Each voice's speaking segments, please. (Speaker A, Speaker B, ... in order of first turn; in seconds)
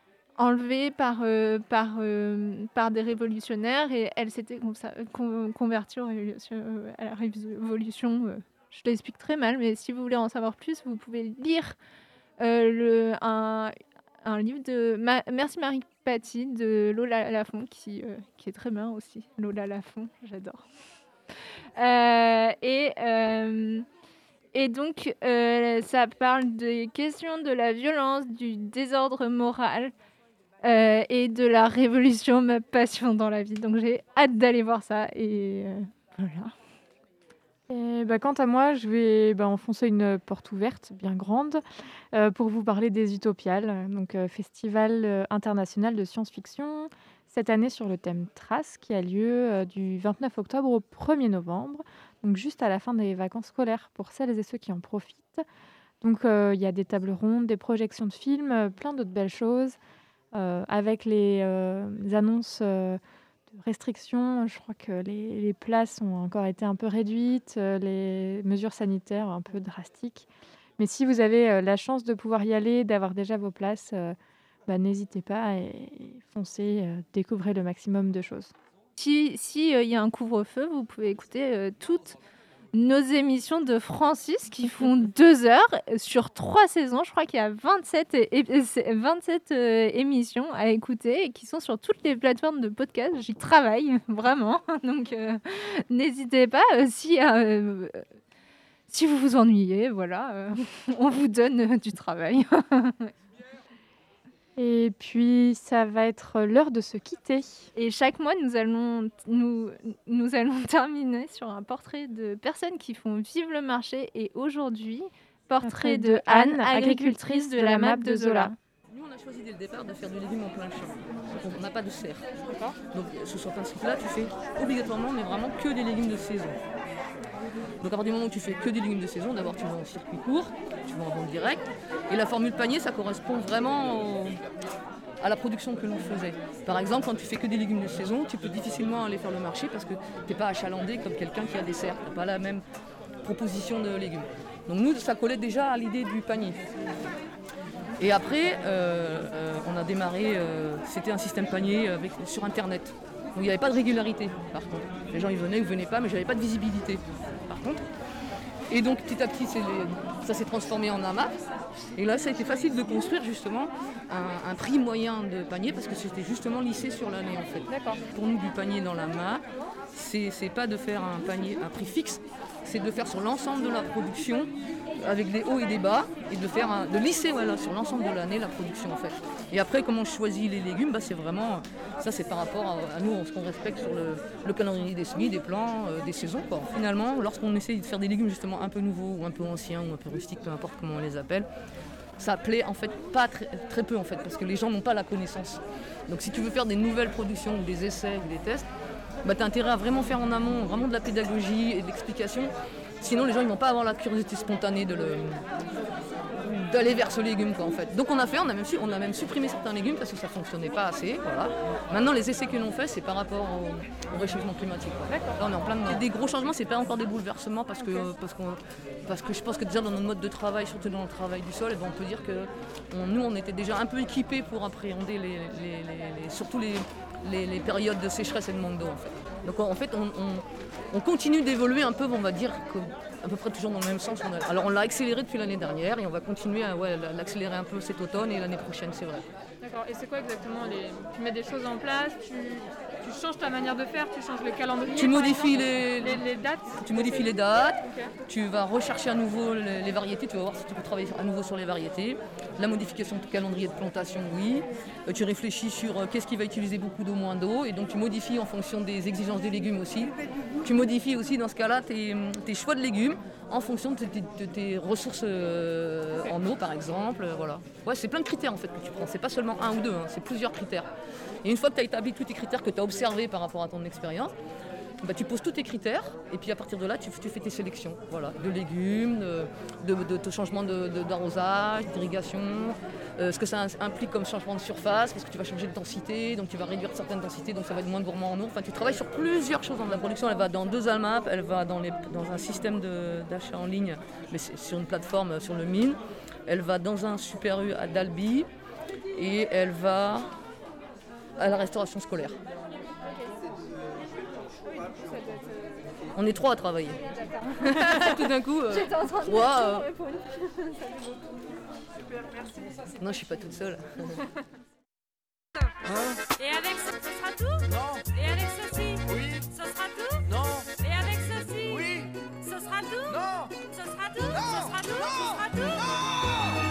Speaker A: 0.4-11.8, 12.4-20.6, 21.8-23.9, 24.5-29.9, 30.6-36.5, 79.0-82.2, 82.7-98.0, 98.9-103.1, 107.7-118.5, 307.2-307.7, 308.7-311.2
Speaker B: 37.7-41.6, 42.1-55.4, 56.0-59.8, 60.3-78.5, 104.5-107.7, 115.6-118.5, 167.7-168.0, 239.6-247.2
Speaker C: 118.9-122.3, 122.9-126.6, 127.8-134.4, 135.2-142.6, 143.2-146.6, 148.0-157.8, 158.7-161.3, 161.9-191.5, 192.2-198.7, 199.2-205.4, 206.4-239.2, 244.9-270.9, 271.4-274.3, 275.0-298.5, 299.1-300.3, 301.4-302.4, 306.1-307.0, 307.6-309.9, 312.8-314.2
Speaker D: 316.2-326.1